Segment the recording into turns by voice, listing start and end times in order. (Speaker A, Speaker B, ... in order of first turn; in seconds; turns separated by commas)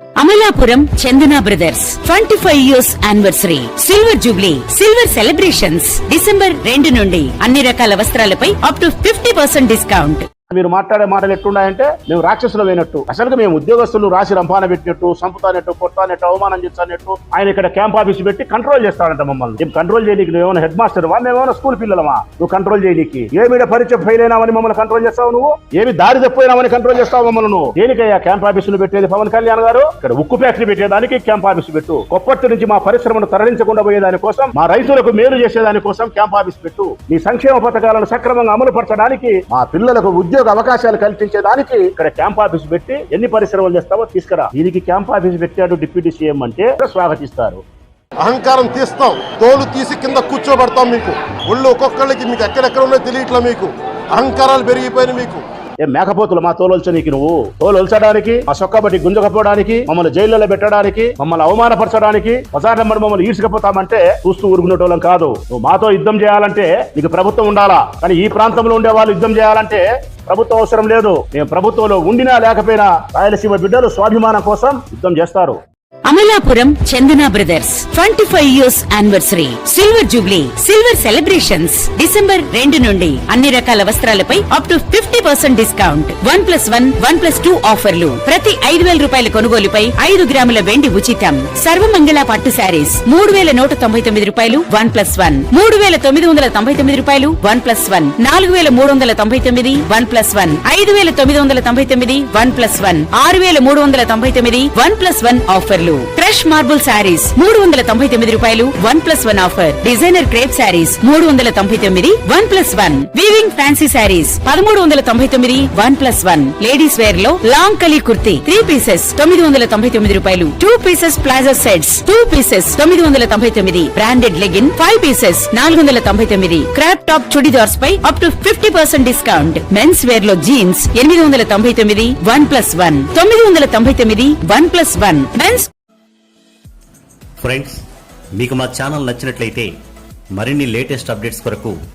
Speaker A: 0.2-10.3, Speaker B: 10.5-47.6, Speaker C: 48.2-55.4, Speaker B: 55.8-75.6, Speaker A: 76.0-135.7, Speaker D: 137.4-137.8, Speaker D: 138.4-139.7, Speaker D: 140.4-141.8